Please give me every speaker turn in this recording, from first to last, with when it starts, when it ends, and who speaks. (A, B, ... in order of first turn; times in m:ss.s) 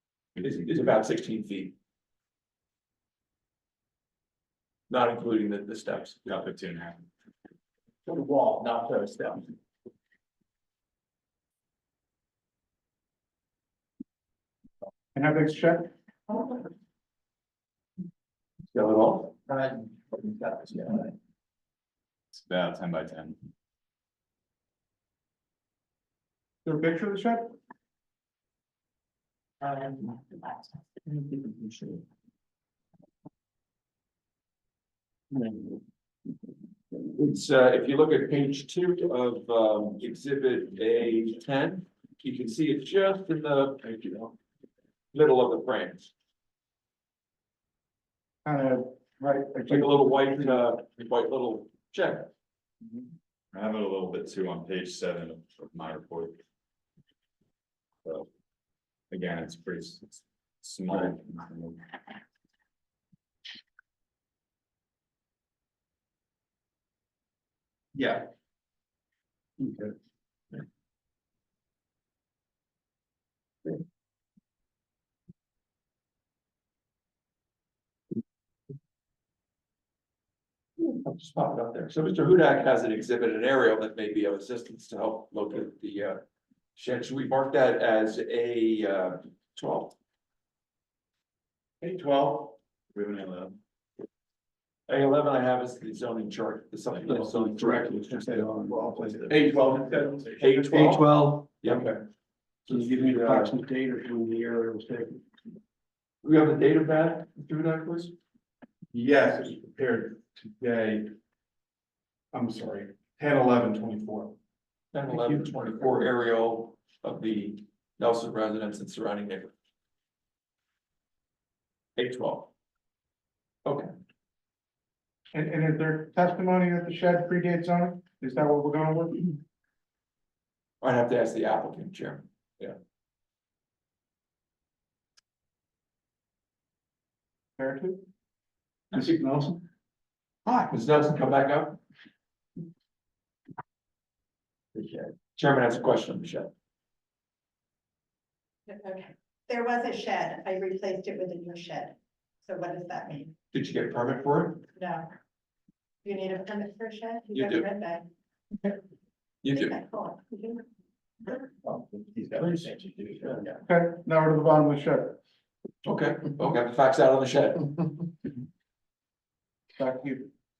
0:00.4-0:01.7 A
0:04.9-0:06.2 A
0:06.2-0:07.0 B
0:08.0-0:09.5 C
0:15.1-0:15.9 D
0:18.7-0:19.3 A
0:19.5-0:21.1 C
0:22.3-0:23.4 B
0:26.6-0:27.5 D
0:29.6-0:29.9 C
0:37.1-0:44.2 A
0:45.1-0:46.1 A
0:48.4-0:50.1 D
0:49.7-0:52.3 A
0:53.5-0:56.4 B
0:59.1-1:01.8 B
1:07.9-1:08.3 C
1:20.8-1:26.2 A
1:26.8-1:30.0 A
1:31.8-1:32.6 E
1:32.9-1:33.6 B
1:34.9-1:37.9 A
1:37.1-1:41.0 E
1:37.1-1:40.3 F
1:38.7-1:39.0 C
1:40.4-1:41.9 A
1:42.7-1:45.2 F
1:42.7-1:43.0 A
1:42.7-1:43.6 E
1:46.2-1:48.1 A
1:48.9-1:51.1 E
1:52.3-1:54.3 E
1:54.9-1:59.5 A
2:02.0-2:02.5 A
2:05.3-2:09.3 D
2:10.8-2:12.8 A
2:17.6-2:18.0 D
2:18.9-2:19.5 F
2:20.7-2:21.8 A
2:24.8-2:26.5 A
2:28.7-2:33.3 G
2:33.5-2:34.6 A
2:34.8-2:35.1 G
2:36.0-2:38.1 G
2:37.3-2:37.6 A
2:39.4-2:39.7 A
2:39.5-2:40.6 G
2:41.6-2:43.6 C
2:43.6-2:45.2 D
2:45.8-2:47.7 A
2:49.8-2:50.3 D